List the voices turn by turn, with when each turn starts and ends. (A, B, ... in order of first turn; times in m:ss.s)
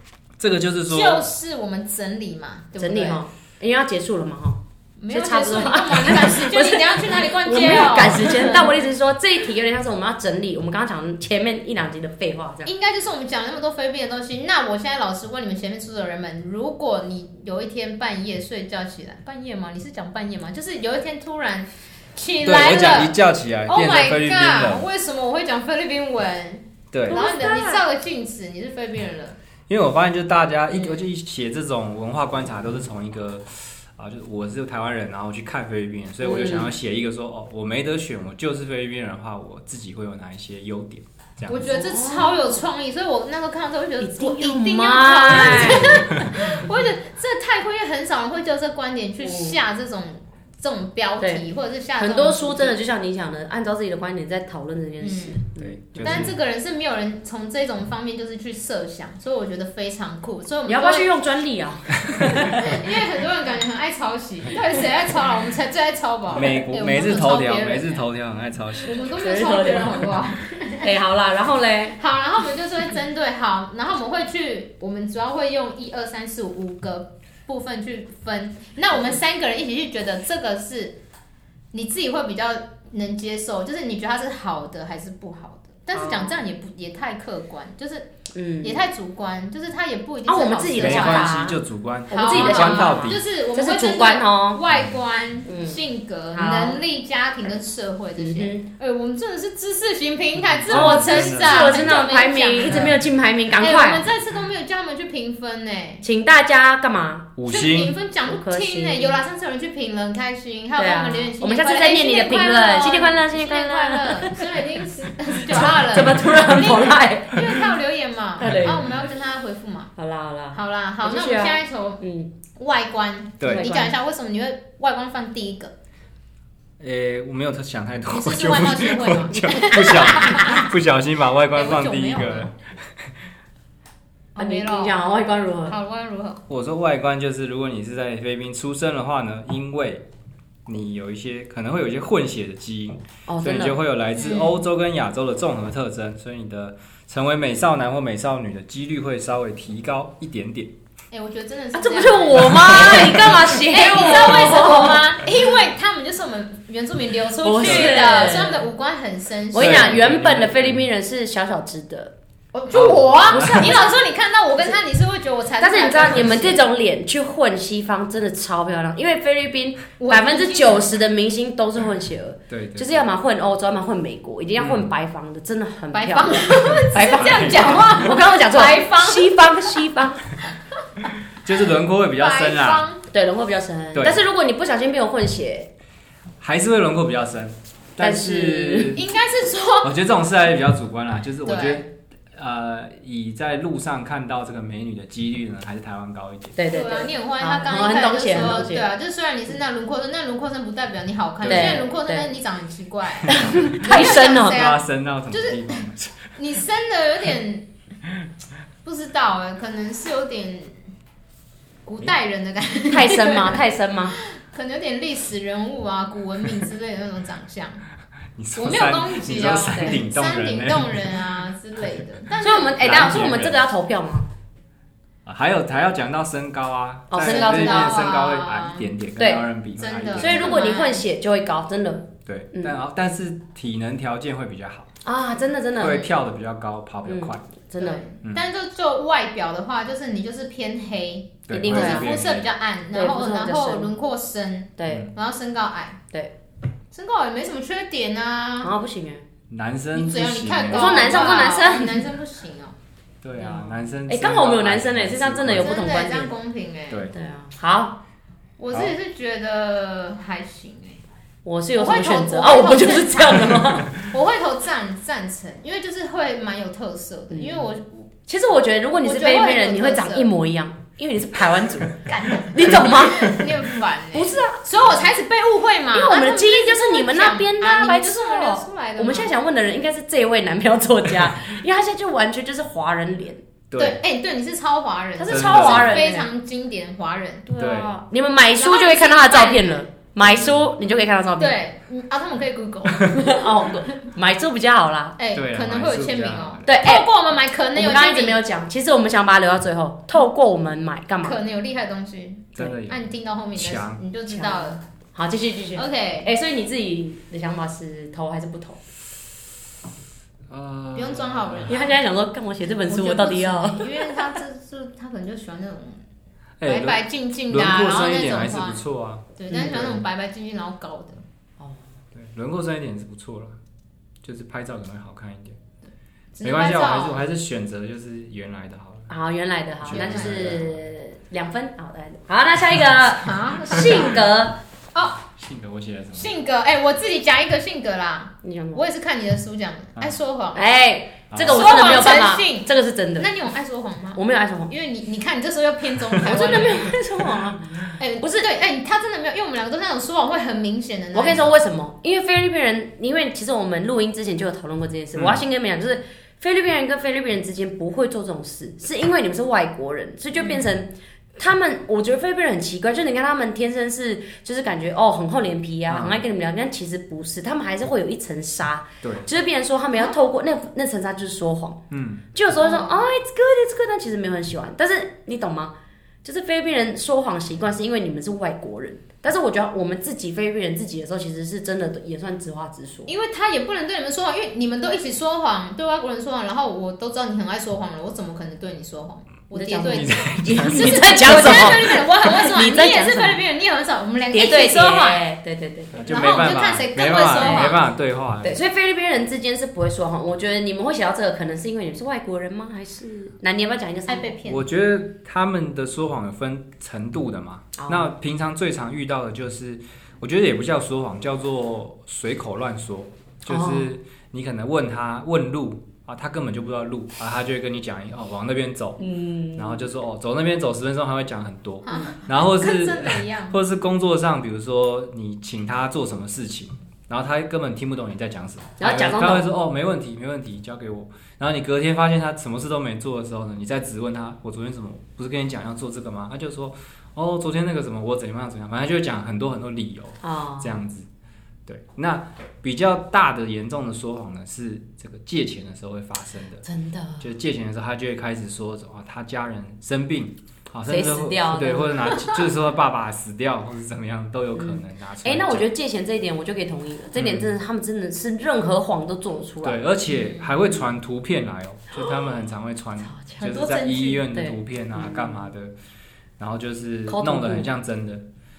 0:00.4-0:01.3 A
0:00.9-0:03.2 B
0:02.8-0:12.7 C
0:05.0-0:08.7 B
0:12.7-0:23.2 B
0:22.4-0:24.9 A
0:23.7-0:29.4 B
0:26.9-0:27.2 A
0:27.1-0:27.8 C
0:29.7-0:41.7 A
0:30.7-0:31.0 B
0:36.2-0:36.7 C
0:41.5-0:52.8 B
0:41.6-0:42.5 C
0:44.0-0:46.7 C
0:49.2-0:49.6 C
0:52.0-0:56.3 C
0:55.0-0:55.4 B
0:55.6-0:56.3 A
0:56.0-1:01.1 B
1:00.7-1:02.8 C
1:02.1-1:02.4 A
1:02.4-1:08.0 B
1:06.3-1:09.1 A
1:08.8-1:10.9 B
1:09.2-1:10.1 C
1:10.8-1:12.0 C
1:12.0-1:21.0 B
1:21.7-1:31.4 B
1:26.0-1:26.4 C
1:28.3-1:28.8 C
1:30.3-1:34.6 C
1:30.8-1:33.2 A
1:32.1-1:43.0 B
1:35.5-1:35.8 C
1:36.3-1:36.8 C
1:38.2-1:38.7 C
1:40.4-1:41.9 A
1:40.7-1:44.1 C
1:42.7-1:43.0 A
1:43.6-1:46.0 B
1:46.0-1:47.3 C
1:47.4-1:48.0 A
1:47.5-1:59.9 B
1:48.3-1:49.2 C
1:50.8-1:54.6 C
1:55.5-1:57.6 C
1:58.4-1:58.9 C
1:58.4-1:58.9 A
2:00.0-2:02.3 C
2:00.5-2:02.0 B
2:02.6-2:05.7 B
2:03.4-2:03.7 A
2:03.5-2:03.9 C
2:06.8-2:13.1 A
2:08.1-2:10.7 B
2:11.5-2:12.5 B
2:14.4-2:15.0 B
2:14.4-2:15.8 C
2:15.7-2:16.4 B
2:16.5-2:20.0 A
2:20.7-2:30.7 A
2:23.3-2:23.8 C
2:24.2-2:24.6 B
2:31.1-2:40.0 B
2:31.8-2:35.2 C
2:37.4-2:38.6 C
2:37.6-2:38.1 A
2:39.5-2:42.1 C
2:39.5-2:40.8 A
2:42.5-2:46.6 B
2:42.7-2:43.8 A
2:43.5-2:43.9 C
2:45.6-3:00.3 C
2:50.0-2:51.0 B
2:52.5-2:53.1 A
2:54.6-2:54.9 A
2:55.9-2:59.8 B
2:57.2-2:58.0 A
3:01.4-3:02.9 A
3:02.2-3:03.0 B
3:03.1-3:05.7 C
3:03.9-3:04.2 A
3:06.4-3:09.1 A
3:08.0-3:09.0 C
3:09.0-3:09.9 B
3:09.8-3:16.6 A
3:11.4-3:11.8 B
3:16.6-3:18.9 C
3:16.7-3:27.7 B
3:21.4-3:21.8 A
3:21.5-3:22.3 C
3:23.3-3:24.6 C
3:23.5-3:26.3 A
3:28.8-3:30.8 B
3:31.8-3:33.6 B
3:32.9-3:34.2 C
3:34.2-3:37.8 B
3:38.4-3:41.1 A
3:38.6-3:43.3 B
3:39.7-3:40.0 C
3:42.4-3:44.3 C
3:42.8-3:43.6 A
3:45.2-3:50.6 A
3:47.1-3:48.0 C
3:47.2-3:48.9 B
3:49.2-3:49.5 C
3:49.8-3:51.0 B
3:50.2-3:52.7 C
3:52.3-3:54.9 A
3:55.0-3:56.1 C
3:55.8-3:57.5 A
3:57.0-3:58.0 C
3:57.8-4:06.0 B
4:01.5-4:02.5 A
4:01.5-4:02.2 C
4:02.9-4:03.9 C
4:04.8-4:05.1 C
4:06.9-4:08.7 B
4:08.6-4:09.2 C
4:09.5-4:11.5 A
4:09.9-4:12.8 B
4:10.7-4:12.0 C
4:13.2-4:15.8 A
4:13.4-4:16.3 C
4:15.5-4:17.1 B
4:17.1-4:18.0 C
4:18.6-4:21.0 B
4:21.4-4:24.0 C
4:21.8-4:28.1 B
4:27.3-4:27.7 C
4:28.3-4:33.6 C
4:29.0-4:30.3 B
4:32.1-4:39.3 B
4:34.1-4:34.9 C
4:35.9-4:43.4 C
4:43.7-4:44.0 A
4:43.8-4:47.5 B
4:45.2-4:46.3 C
4:45.3-4:46.0 A
4:47.5-4:51.6 C
4:47.6-4:47.9 A
4:48.6-4:49.8 B
4:50.2-4:50.6 A
4:51.4-4:53.7 B
4:53.1-4:55.2 C
4:55.2-4:58.4 B
4:55.3-4:56.7 A
4:56.7-4:57.1 C
4:57.8-5:01.4 C
5:01.2-5:04.8 B
5:02.6-5:04.0 A
5:04.3-5:08.8 C
5:05.8-5:06.3 B
5:10.5-5:11.8 A
5:11.0-5:11.9 B
5:11.7-5:14.1 C
5:12.9-5:16.0 B
5:16.6-5:20.0 A
5:16.6-5:18.8 B
5:19.4-5:21.2 B
5:22.1-5:23.6 A
5:24.2-5:25.6 A
5:26.4-5:27.2 B
5:26.4-5:29.1 A
5:29.1-5:34.6 C
5:29.8-5:30.8 A
5:29.9-5:30.5 B
5:33.1-5:34.2 B
5:34.9-5:35.2 B
5:35.4-5:36.3 A
5:36.2-5:40.6 B
5:38.4-5:38.8 C
5:40.5-5:43.3 C
5:41.3-5:41.9 A
5:41.4-5:47.0 B
5:44.2-5:44.7 C
5:46.2-5:48.5 C
5:48.0-5:51.6 B
5:51.1-6:11.8 C
5:55.2-5:55.4 A
6:00.4-6:00.6 B
6:05.9-6:06.2 A
6:09.0-6:09.3 A
6:11.9-6:12.2 A
6:12.3-6:15.7 C
6:12.6-6:13.0 B
6:16.2-6:23.1 C
6:23.1-6:35.2 B
6:29.5-6:33.4 C
6:29.9-6:32.0 A
6:34.3-6:36.1 C
6:35.9-6:38.6 A
6:36.1-6:37.8 B
6:37.4-6:37.7 C
6:38.4-6:44.3 C
6:44.1-6:44.7 B
6:44.5-7:21.1 A
6:47.8-6:48.1 C
6:53.5-6:53.9 C
6:59.0-6:59.9 C
7:01.8-7:03.6 B
7:08.8-7:09.5 C
7:20.2-7:20.8 C
7:21.7-7:26.6 A
7:26.6-7:27.3 C
7:27.2-7:35.7 A
7:30.9-7:32.3 C
7:34.6-7:39.8 C
7:37.2-7:37.5 A
7:39.6-7:45.8 A
7:43.1-7:45.5 C
7:46.4-7:48.2 A
7:47.1-7:47.7 C